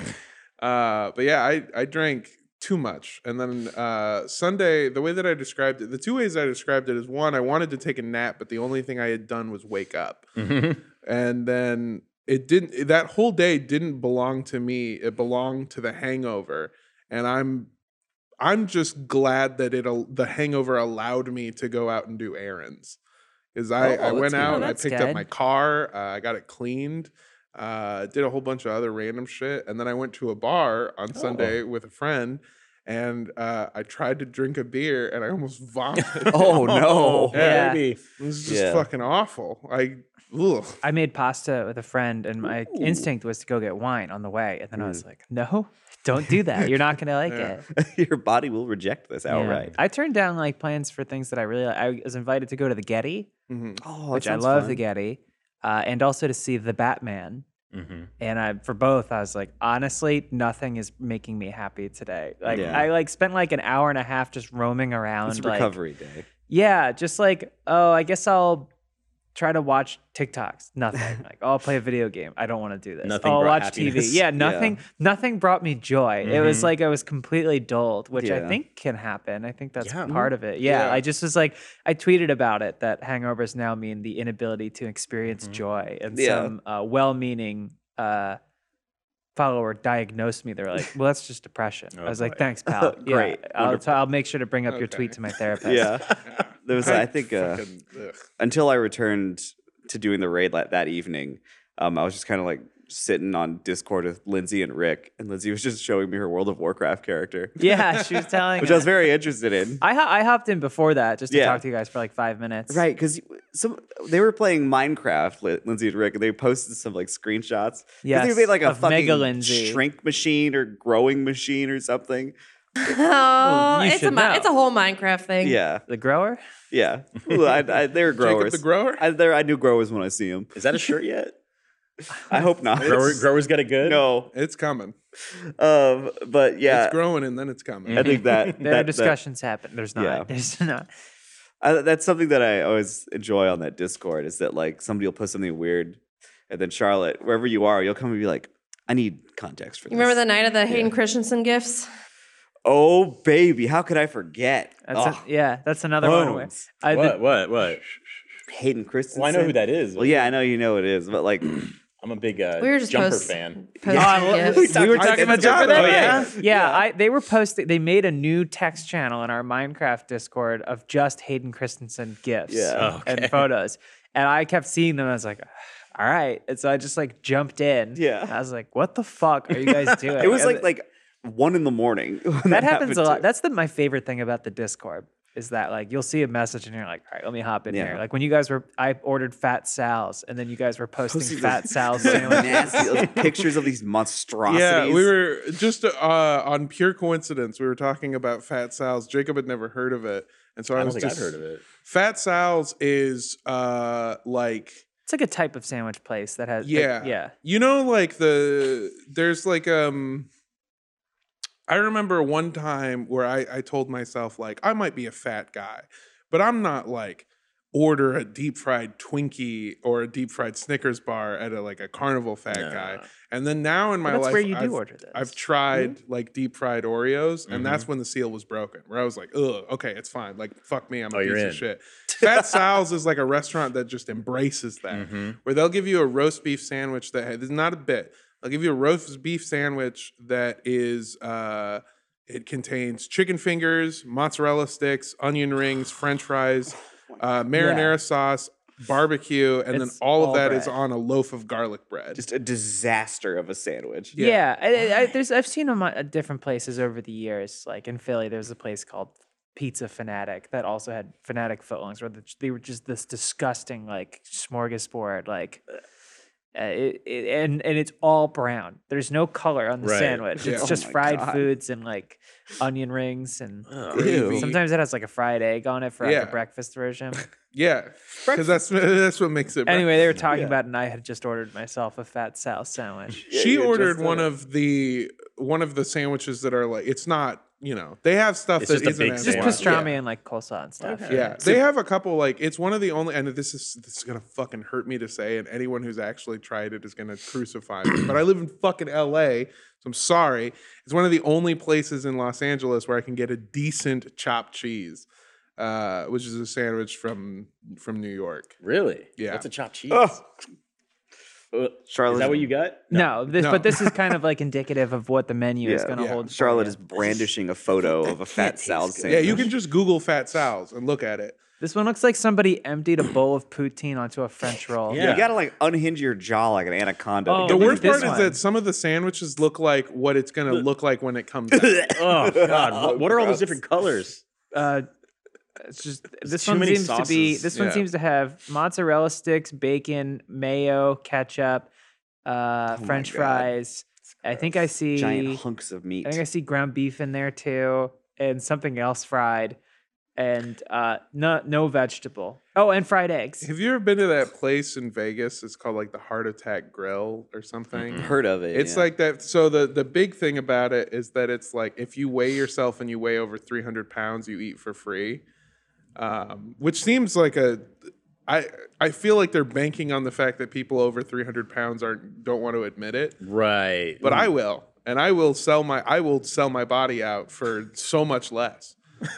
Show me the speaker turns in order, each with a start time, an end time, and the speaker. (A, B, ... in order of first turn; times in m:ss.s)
0:00.6-0:10.3 A
0:10.4-0:10.8 B
0:11.0-0:17.7 A
0:18.4-0:23.0 A
0:23.5-0:36.6 A
0:23.8-0:24.7 C
0:23.8-0:25.3 D
0:36.0-0:38.0 B
0:36.3-0:37.5 C
0:37.3-0:37.6 A
0:37.3-0:37.8 D
0:38.2-0:40.8 A
0:38.4-0:38.9 C
0:40.8-0:47.6 D
0:42.7-0:43.0 C
0:44.8-0:45.0 C
0:47.3-0:47.6 A
0:47.7-0:49.7 C
0:49.3-0:53.3 D
0:53.5-0:53.8 A
0:53.8-0:54.8 C
0:54.1-0:57.4 D
0:57.7-0:58.1 B
0:58.2-1:05.7 D
1:02.4-1:02.8 B
1:02.5-1:02.9 C
1:05.3-1:06.2 C
1:06.5-1:08.7 D
1:09.3-1:28.4 D
1:13.0-1:14.2 B
1:14.3-1:14.8 C
1:16.2-1:16.7 B
1:18.2-1:18.6 C
1:19.8-1:20.3 B
1:20.6-1:21.0 A
1:26.1-1:26.5 C
1:29.4-1:36.0 D
1:31.9-1:32.4 B
1:32.7-1:34.0 C
1:34.7-1:35.1 A
1:35.6-1:37.6 C
1:36.2-1:38.2 A
1:38.4-1:47.6 C
1:47.6-1:48.9 D
1:48.0-1:48.2 A
1:48.6-1:49.8 C
1:49.8-1:52.8 D
1:51.3-1:51.6 C
1:52.7-2:02.3 C
1:58.0-1:59.8 D
2:02.8-2:05.6 E
2:03.4-2:04.5 D
2:05.4-2:05.8 C
2:05.9-2:06.4 D
2:06.7-2:10.5 C
2:08.1-2:09.0 A
2:10.5-2:11.3 B
2:12.3-2:13.2 C
2:12.8-2:14.0 B
2:12.8-2:13.2 A
2:13.8-2:14.3 C
2:14.3-2:14.9 A
2:15.4-2:17.0 C
2:16.6-2:18.2 A
2:17.8-2:18.6 B
2:17.9-2:19.2 C
2:18.6-2:20.9 D
2:20.0-2:20.3 C
2:21.6-2:30.9 C
2:29.9-2:31.9 E
2:32.6-2:35.2 C
2:34.9-2:37.2 D
2:36.0-2:37.8 B
2:38.5-2:41.7 C
2:39.1-2:40.3 B
2:42.0-2:43.7 B
2:42.6-2:44.7 E
2:43.8-2:46.8 C
2:43.9-3:00.7 D
2:44.9-2:46.3 B
2:44.9-2:46.3 A
2:52.5-2:52.9 C
2:52.8-2:53.5 B
2:58.0-2:58.3 C
2:59.7-3:00.3 B
3:00.2-3:03.2 C
3:02.5-3:12.9 D
3:07.7-3:08.0 C
3:11.1-3:15.1 C
3:14.5-3:24.8 A
3:20.8-3:21.6 B
3:25.0-3:27.3 D
3:26.6-3:30.3 A
3:31.7-4:12.2 A
3:42.5-3:43.0 B
3:44.0-3:45.4 D
3:47.5-3:47.9 B
3:51.1-3:51.6 B
3:54.9-3:55.4 B
4:07.5-4:08.0 D
4:09.7-4:10.8 D
4:12.2-4:14.1 C
4:14.1-4:14.4 A
4:14.2-4:25.6 D
4:26.5-4:33.7 D
4:29.8-4:30.3 B
4:30.4-4:31.5 C
4:30.4-4:30.7 A
4:33.7-4:34.1 B
4:33.9-4:34.5 C
4:33.9-4:34.6 A
4:34.2-4:37.2 D
4:36.0-4:36.4 A
4:37.5-4:40.1 A
4:39.6-4:43.2 D
4:40.3-4:40.6 C
4:43.3-4:44.3 C
4:43.3-4:49.9 A
4:48.6-4:49.9 B
4:49.2-4:51.5 D
4:50.8-4:51.6 B
4:51.1-5:05.0 A
5:05.6-5:08.5 A
5:08.6-5:10.2 B
5:09.2-5:09.5 A
5:09.9-5:10.2 C
5:11.5-5:13.1 B
5:11.9-5:12.5 C
5:12.9-5:16.8 D
5:13.4-5:14.0 A
5:15.6-5:19.5 C
5:15.9-5:16.2 A
5:18.3-5:19.5 B
5:19.1-5:21.4 A
5:21.6-5:25.1 D
5:24.9-5:25.3 B
5:24.9-5:28.2 C
5:27.2-5:28.4 D
5:27.4-5:32.0 A
5:31.5-5:33.5 C
5:31.8-5:34.2 B
5:34.5-5:34.9 D
5:35.6-5:41.7 D
5:36.2-5:37.5 B
5:37.5-5:37.8 A
5:42.2-5:45.4 D
5:42.7-5:43.5 C
5:44.9-5:46.2 C
5:46.0-5:49.6 D
5:50.2-5:53.5 D
5:53.4-6:05.2 A
5:57.7-5:58.1 B
5:57.9-5:58.9 C
6:06.0-6:13.2 A
6:13.2-6:14.2 B
6:14.0-6:18.8 A